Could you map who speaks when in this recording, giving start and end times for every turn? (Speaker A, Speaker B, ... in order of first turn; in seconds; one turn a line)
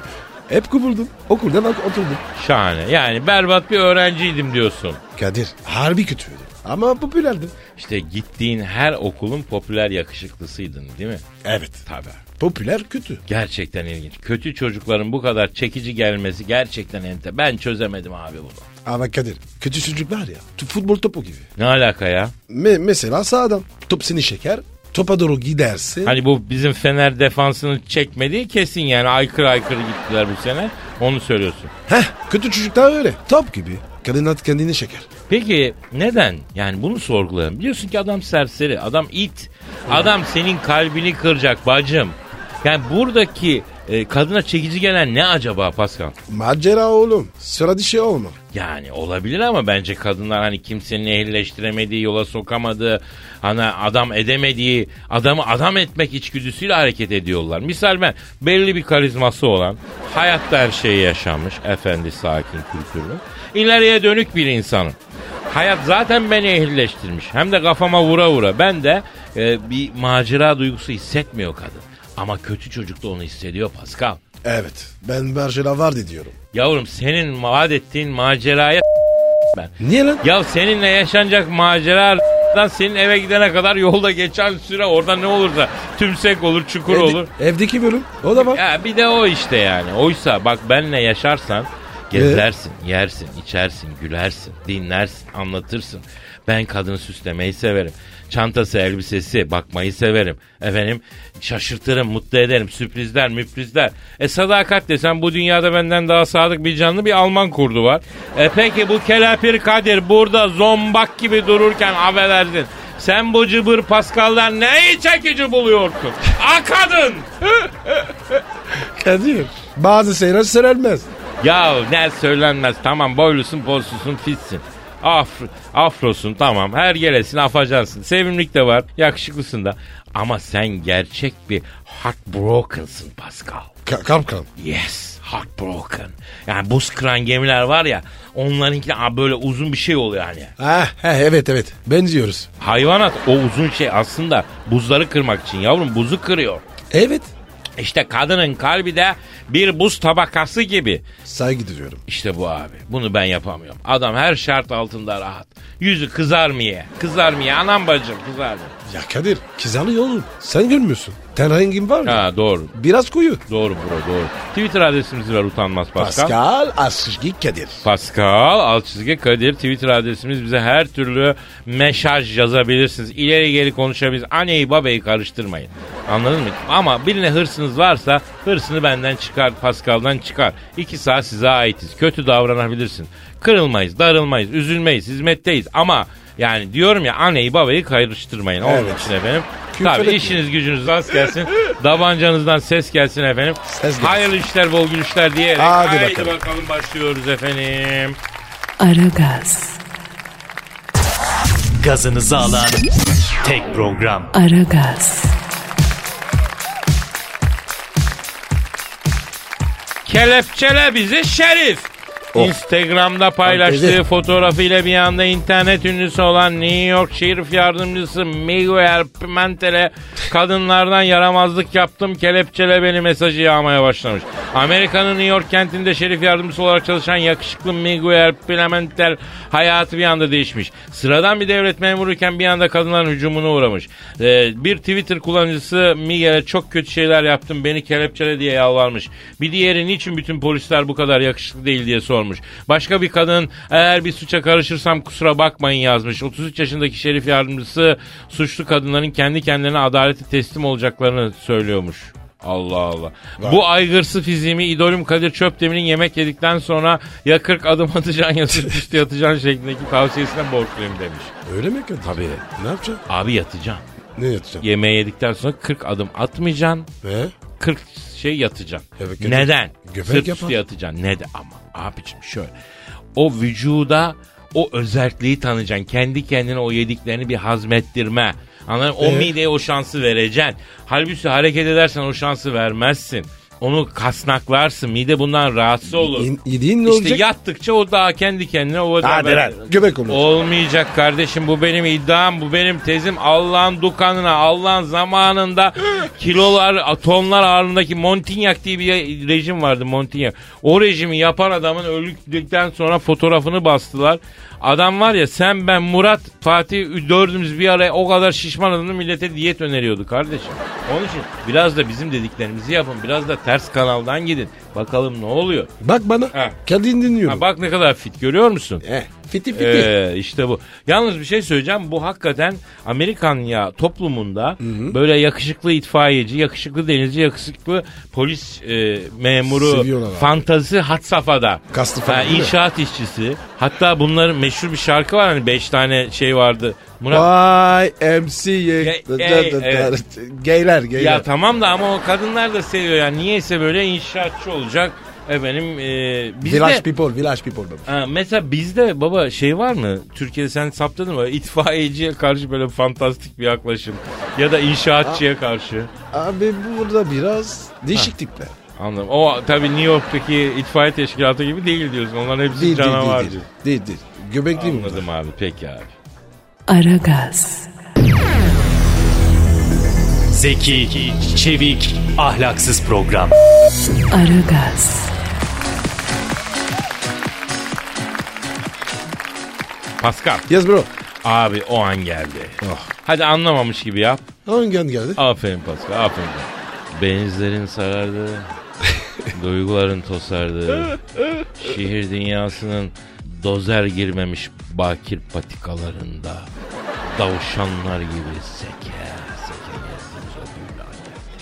Speaker A: 0.5-2.2
Speaker B: 2.3-5.0
Speaker A: 5.2-7.5
Speaker B: 7.8-11.2
Speaker A: 11.4-11.8
Speaker B: 11.9-12.2
Speaker A: 12.4-13.2
Speaker B: 13.3-18.6
Speaker A: 18.8-21.5
Speaker B: 21.6-22.3
Speaker A: 22.5-26.2
Speaker B: 26.0-31.7
Speaker A: 31.9-35.1
Speaker B: 35.3-46.1
Speaker A: 39.9-40.1
Speaker A: 46.3-48.4
Speaker B: 48.5-65.0
Speaker B: 65.5-74.2
Speaker A: 74.4-76.3
Speaker B: 76.5-78.8
Speaker B: 79.5-87.3
Speaker A: 79.8-80.2
Speaker A: 86.9-88.6
Speaker B: 88.3-117.3
Speaker A: 92.1-92.5
Speaker A: 117.8-118.1
Speaker A: 118.7-121.1
Speaker B: 121.4-133.7
Speaker A: 133.8-134.5
Speaker B: 134.6-140.5
Speaker A: 140.6-142.5
Speaker B: 142.6-146.6
Speaker A: 146.9-147.3
Speaker B: 147.8-151.1
Speaker A: 151.2-152.0
Speaker B: 152.1-158.7
Speaker A: 158.8-163.4
Speaker B: 162.0-162.7
Speaker B: 163.5-166.3
Speaker A: 165.9-167.8
Speaker B: 167.8-198.2
Speaker A: 188.6-189.1
Speaker A: 189.7-190.4
Speaker A: 193.7-194.3
Speaker A: 195.6-196.3
Speaker C: 198.8-199.8
Speaker D: 201.8-202.8
Speaker D: 203.4-204.3
Speaker C: 204.3-205.3
Speaker B: 210.0-261.3
Speaker A: 213.4-214.0
Speaker A: 261.4-263.0
Speaker B: 262.0-262.4
Speaker B: 263.1-263.8
Speaker A: 264.1-264.6
Speaker B: 264.6-266.9
Speaker A: 267.0-267.3
Speaker B: 267.6-272.5
Speaker A: 269.0-270.6
Speaker B: 273.1-286.3
Speaker A: 279.0-279.3
Speaker A: 285.9-287.2
Speaker B: 286.8-315.7
Speaker A: 289.0-290.2
Speaker A: 315.8-317.4
Speaker B: 317.2-318.8
Speaker A: 318.8-319.9
Speaker B: 319.5-337.3
Speaker A: 324.6-325.0
Speaker A: 329.4-330.4
Speaker A: 331.7-332.5
Speaker A: 337.1-341.2
Speaker B: 338.8-339.9
Speaker B: 340.9-346.8
Speaker A: 346.4-347.9
Speaker B: 347.9-355.9
Speaker A: 356.1-358.5
Speaker B: 358.8-363.5
Speaker A: 362.5-365.1
Speaker B: 364.5-365.9
Speaker C: 366.7-367.7
Speaker D: 370.3-373.3
Speaker C: 374.1-375.1
Speaker B: 380.0-380.5
Speaker A: 380.5-380.9
Speaker B: 381.2-384.2
Speaker A: 382.6-382.9
Speaker A: 384.4-385.2
Speaker B: 385.1-388.5
Speaker B: 389.3-391.0
Speaker B: 391.5-396.5
Speaker B: 397.1-401.2